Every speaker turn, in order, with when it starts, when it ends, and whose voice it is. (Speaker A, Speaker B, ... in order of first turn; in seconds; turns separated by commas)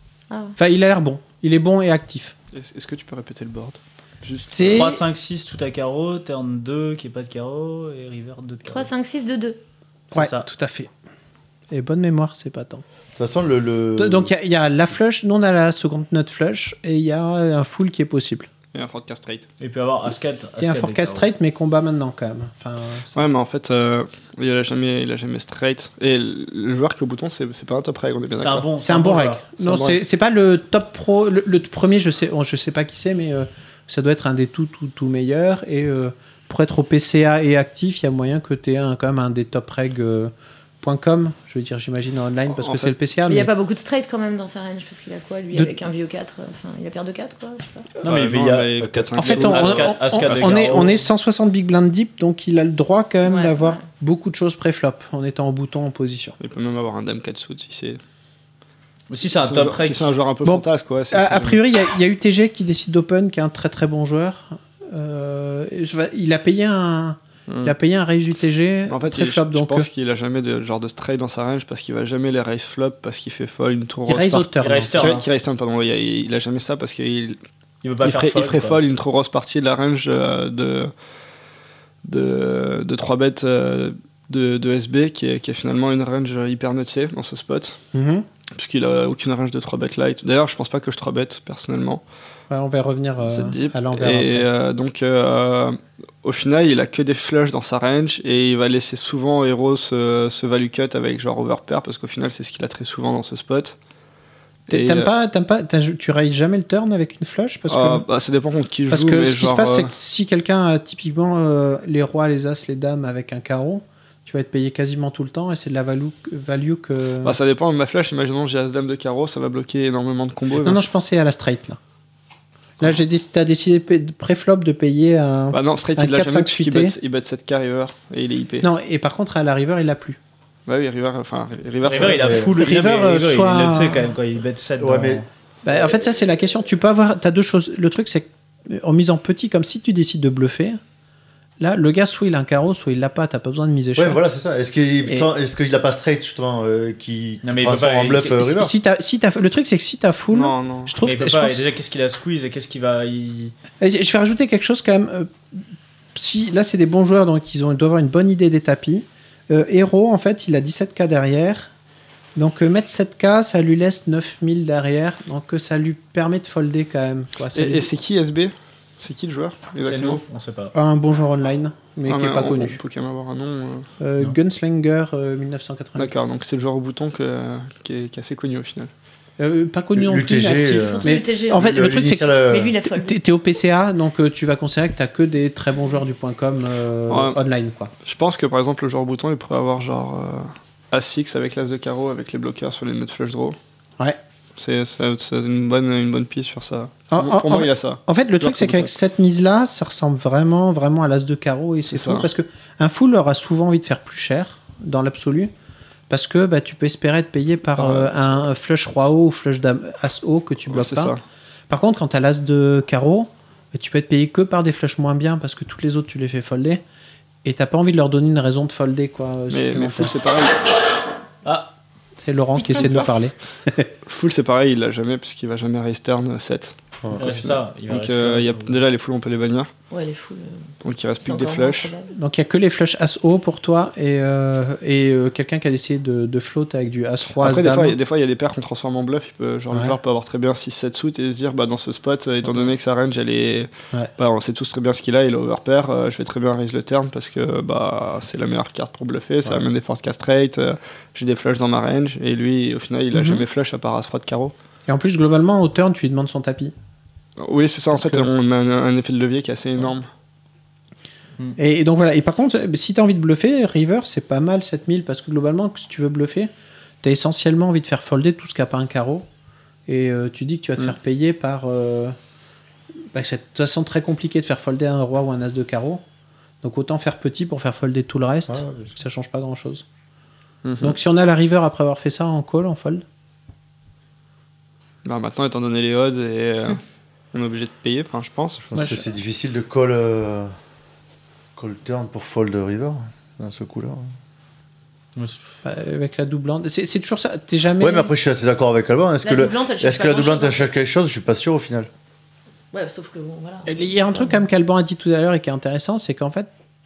Speaker A: 0.3-0.6, Speaker B: 0.6-2.4, Speaker C: 2.5-4.8, Speaker B: 4.5-5.0, Speaker D: 4.6-8.9, Speaker A: 8.7-9.6, Speaker B: 10.1-10.9, Speaker D: 10.1-10.5, Speaker B: 11.7-12.8, Speaker E: 13.2-14.3, Speaker B: 14.0-18.5, Speaker C: 18.7-19.5, Speaker D: 19.6-21.3, Speaker B: 20.6-23.3, Speaker C: 23.1-28.7, Speaker D: 28.4-29.4, Speaker B: 28.8-43.5, Speaker C: 29.6-30.0, Speaker C: 42.5-43.0, Speaker A: 43.3-47.9, Speaker C: 48.0-50.9, Speaker D: 48.0-51.0, Speaker B: 49.2-56.4, Speaker A: 53.2-53.8, Speaker C: 56.4-58.0, Speaker D: 59.1-60.1, Speaker C: 59.4-61.6, Speaker B: 60.5-69.9, Speaker C: 67.5-67.8, Speaker C: 68.9-77.4, Speaker B: 74.1-75.2, Speaker D: 74.6-75.2, Speaker D: 77.8-78.8, Speaker C: 78.0-80.9, Speaker C: 82.0-87.8, Speaker B: 87.9-88.3, Speaker C: 88.5-92.0, Speaker B: 92.5-94.5, Speaker C: 93.2-103.8, Speaker C: 104.7-105.1, Speaker B: 104.7-108.0, Speaker C: 107.7-109.9, Speaker B: 108.9-117.4, Speaker C: 117.2-120.9, Speaker B: 120.6-121.8, Speaker B: 122.8-127.0, Speaker C: 125.5-128.7, Speaker B: 128.6-130.2, Speaker C: 130.7-132.5, Speaker D: 131.8-135.3, Speaker E: 132.1-132.5, Speaker B: 132.6-134.1, Speaker E: 134.8-135.2, Speaker B: 135.6-140.8, Speaker B: 141.6-144.2, Speaker E: 143.9-148.7, Speaker D: 147.4-148.4, Speaker B: 148.2-151.6, Speaker C: 150.3-151.0, Speaker D: 151.0-153.5, Speaker B: 153.8-155.6, Speaker B: 156.2-161.7, Speaker B: 162.4-167.9, Speaker C: 167.5-170.2, Speaker D: 169.8-170.7, Speaker B: 170.7-172.8, Speaker C: 172.1-173.9, Speaker B: 174.0-176.1, Speaker C: 176.0-178.9, Speaker B: 179.4-182.3, Speaker E: 180.0-182.8, Speaker A: 181.0-183.2, Speaker B: 182.9-187.9, Speaker C: 187.1-187.4, Speaker C: 188.0-193.6, Speaker C: 194.6-198.9, Speaker B: 197.1-205.5, Speaker C: 201.9-202.3, Speaker B: 206.1-211.1, Speaker C: 207.7-208.4, Speaker C: 210.7-211.2, Speaker B: 211.7-216.8, Speaker B: 217.4-220.1, Speaker C: 219.5-220.7, Speaker D: 221.4-221.7, Speaker B: 222.2-223.9, Speaker C: 224.1-229.7, Speaker E: 227.0-227.3, Speaker D: 227.2-228.8, Speaker A: 229.9-230.7, Speaker C: 230.8-231.9, Speaker A: 231.2-232.1, Speaker B: 232.1-238.0, Speaker C: 237.4-254.5, Speaker B: 239.7-240.0, Speaker B: 242.4-242.7, Speaker B: 253.1-253.4, Speaker B: 254.9-256.7, Speaker C: 257.4-260.1, Speaker B: 257.9-258.3, Speaker B: 261.6-266.5, Speaker B: 267.0-269.3, Speaker B: 269.9-272.2, Speaker B: 273.1-276.0, Speaker B: 276.6-279.9, Speaker E: 278.5-278.9, Speaker C: 280.6-281.0, Speaker B: 280.8-283.0, Speaker C: 285.0-286.8, Speaker C: 287.3-288.7, Speaker E: 288.6-290.5, Speaker B: 288.8-289.0, Speaker E: 291.6-294.1, Speaker D: 295.2-295.5, Speaker B: 295.6-298.1, Speaker E: 297.8-301.9, Speaker A: 299.2-300.8, Speaker A: 302.7-304.5, Speaker B: 303.7-306.5